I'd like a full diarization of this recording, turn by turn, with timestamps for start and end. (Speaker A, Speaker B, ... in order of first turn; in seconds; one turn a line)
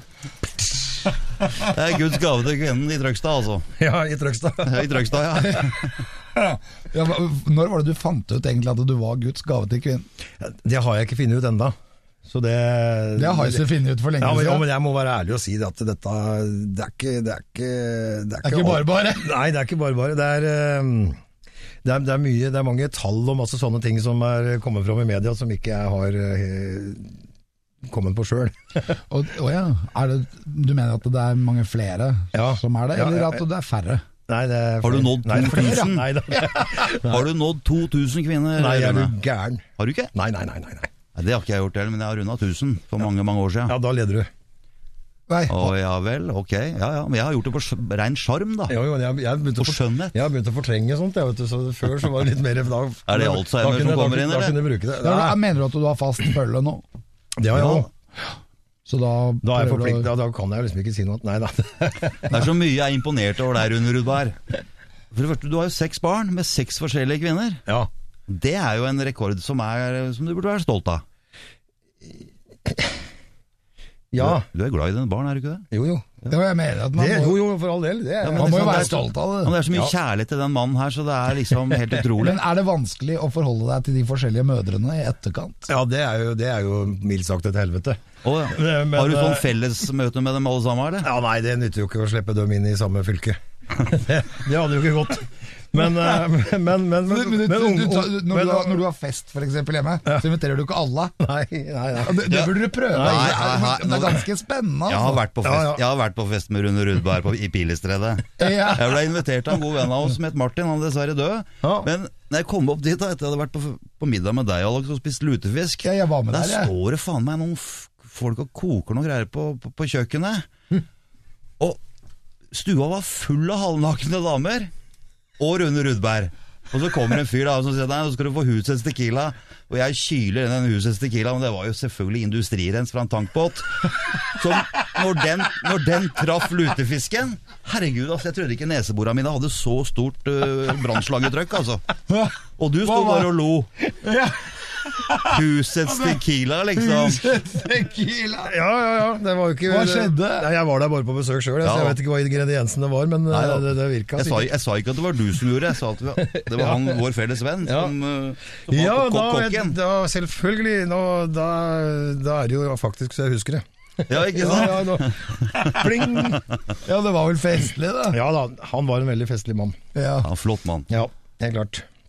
Speaker A: 1.6-3.7
Speaker B: 3.8-4.9
Speaker A: 4.6-5.9
Speaker C: 6.3-10.1
Speaker B: 10.4-13.7
Speaker C: 13.2-14.6
Speaker B: 14.2-21.2
Speaker C: 18.4-19.3
Speaker B: 21.8-27.2
Speaker B: 27.8-28.9
Speaker C: 29.1-34.0
Speaker B: 32.3-33.4
Speaker B: 34.3-37.3
Speaker A: 34.8-36.2
Speaker C: 35.4-35.8
Speaker A: 37.0-39.1
Speaker B: 38.5-40.9
Speaker A: 39.8-40.1
Speaker A: 41.1-43.8
Speaker B: 43.7-44.3
Speaker C: 45.3-45.7
Speaker A: 45.5-48.8
Speaker B: 48.7-55.4
Speaker A: 49.5-50.2
Speaker A: 53.1-54.6
Speaker C: 55.0-56.8
Speaker B: 57.4-57.9
Speaker A: 57.5-57.9
Speaker C: 58.9-60.1
Speaker B: 59.4-62.3
Speaker A: 62.3-64.4
Speaker A: 65.1-67.6
Speaker A: 68.3-71.0
Speaker B: 72.7-72.9
Speaker B: 74.1-74.5
Speaker A: 74.2-75.7
Speaker B: 75.7-76.1
Speaker C: 76.3-77.4
Speaker B: 76.9-79.0
Speaker A: 78.2-82.4
Speaker C: 78.3-79.5
Speaker C: 82.2-85.7
Speaker B: 85.7-89.5
Speaker A: 88.2-91.1
Speaker B: 91.0-98.8
Speaker C: 97.1-101.1
Speaker B: 101.2-103.6
Speaker C: 102.0-105.2
Speaker A: 102.3-104.2
Speaker A: 104.9-120.5
Speaker B: 105.4-105.8
Speaker C: 108.4-108.9
Speaker B: 111.6-111.9
Speaker C: 115.8-116.7
Speaker A: 122.5-124.7
Speaker A: 125.4-141.8
Speaker C: 142.1-143.3
Speaker A: 142.6-143.7
Speaker C: 144.0-146.2
Speaker A: 145.2-147.3
Speaker C: 146.8-148.5
Speaker B: 148.4-154.5
Speaker C: 149.7-150.5
Speaker A: 151.6-152.0
Speaker A: 153.3-159.7
Speaker B: 156.2-157.0
Speaker B: 157.6-157.9
Speaker B: 158.7-166.4
Speaker A: 164.1-165.8
Speaker C: 166.8-168.2
Speaker B: 168.1-169.8
Speaker C: 169.9-170.3
Speaker A: 170.2-170.9
Speaker B: 170.9-171.8